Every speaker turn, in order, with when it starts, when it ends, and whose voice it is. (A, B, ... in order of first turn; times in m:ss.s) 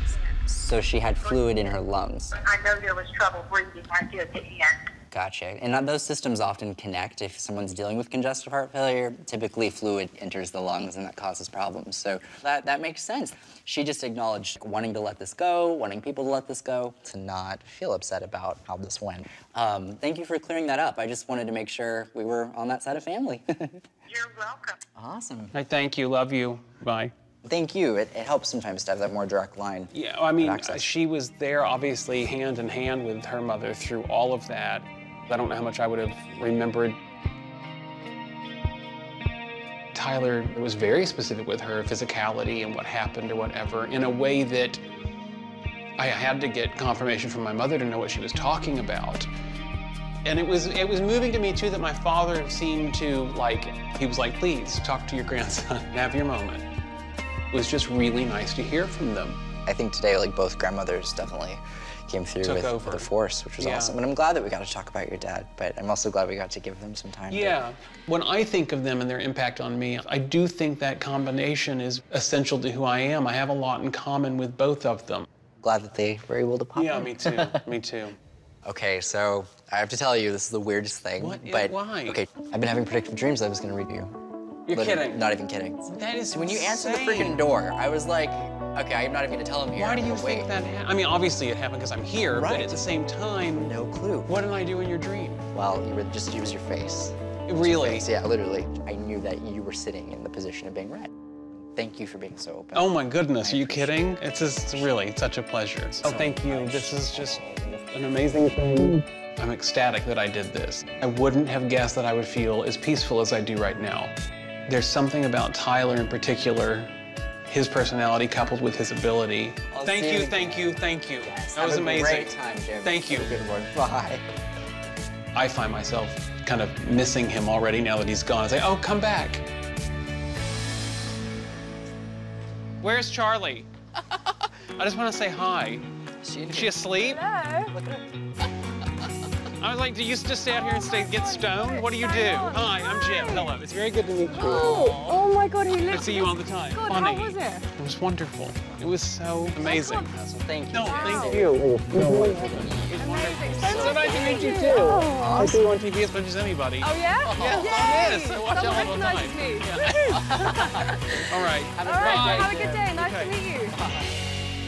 0:00.3-0:02.4 A
0:01.2-0:01.5 B
0:02.3-0:04.8 B
0:05.1-0:23.8 A
0:24.1-0:24.8 B
0:24.9-0:25.5 A
0:25.5-0:27.1 C
0:27.4-0:30.9 A
0:29.9-0:37.0 C
0:39.9-0:44.8 C
0:46.0-0:49.3 C
0:50.2-0:56.6 C
0:57.5-0:59.4 C
0:59.7-1:07.6 A
1:02.4-1:04.0 C
1:07.3-1:15.3 C
1:15.6-1:17.6 A
1:16.8-1:18.2 C
1:18.6-1:24.2 A
1:21.2-1:22.2 C
1:24.7-1:25.2 C
1:24.7-1:30.5 A
1:25.9-1:27.5 C
1:29.8-1:33.8 C
1:32.3-1:32.9 A
1:33.5-1:34.3 A
1:34.2-1:35.4 C
1:35.5-1:41.1 A
1:37.5-1:38.1 C
1:41.8-1:45.0 A
1:42.7-1:54.1 C
1:46.0-1:47.9 A
1:54.7-1:56.9 C
1:57.5-2:03.4 C
1:59.7-2:04.2 A
2:05.3-2:09.4 C
2:12.8-2:13.7 C
2:14.8-2:15.9 C
2:16.2-2:17.0 A
2:16.5-2:17.2 C
2:17.0-2:17.7 D
2:17.7-2:18.0 A
2:19.6-2:25.3 C
2:20.5-2:23.5 D
2:24.3-2:27.7 D
2:24.4-2:25.0 A
2:25.8-2:30.1 C
2:29.6-2:30.1 D
2:30.0-2:35.6 A
2:30.7-2:43.4 C
2:30.8-2:31.6 D
2:32.9-2:35.6 D
2:36.8-2:41.2 D
2:37.2-2:38.9 A
2:39.8-2:41.2 A
2:41.7-2:43.0 A
2:41.8-2:43.8 D
2:43.7-2:44.1 A